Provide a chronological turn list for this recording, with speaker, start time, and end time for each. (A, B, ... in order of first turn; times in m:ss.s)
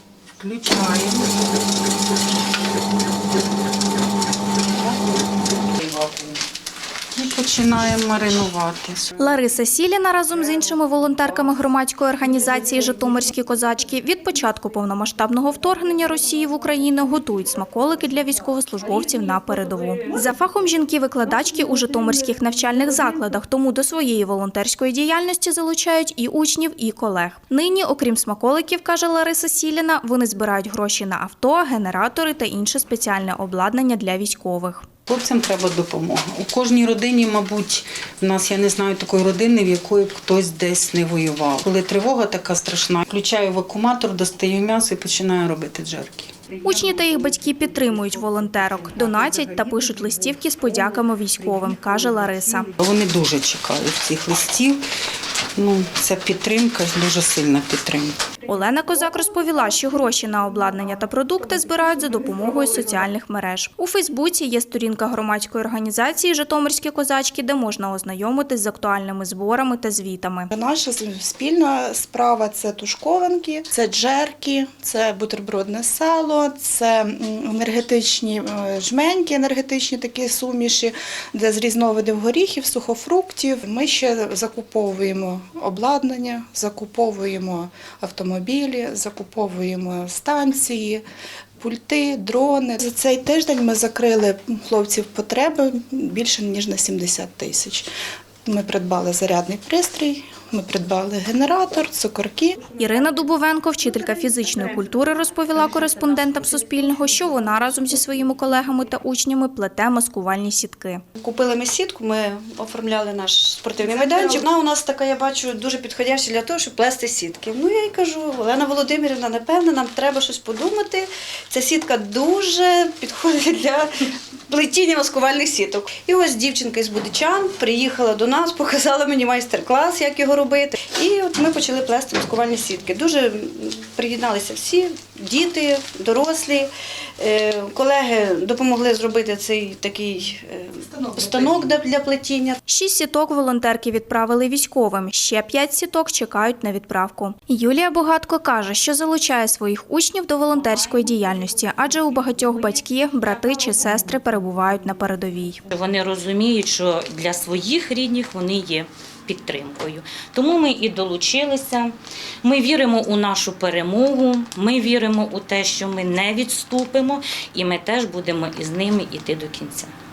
0:00.4-0:01.4 A
0:04.6-0:06.4 A
0:07.1-0:09.2 A
0:09.2-0:34.8 B
0:35.0-0:46.5 A
0:46.6-0:52.7 B
0:52.8-0:54.8 A
0:55.6-0:58.2 A
0:58.4-1:10.5 B
1:10.5-1:31.0 C
1:31.6-1:37.8 C
1:38.4-1:42.6 C
1:42.8-1:51.0 B
1:51.2-2:03.9 D
2:04.5-2:22.6 D
2:20.9-2:21.7 C
2:22.7-2:35.6 B
2:30.5-2:32.6 E
2:33.6-2:33.9 E
2:35.7-2:49.9 E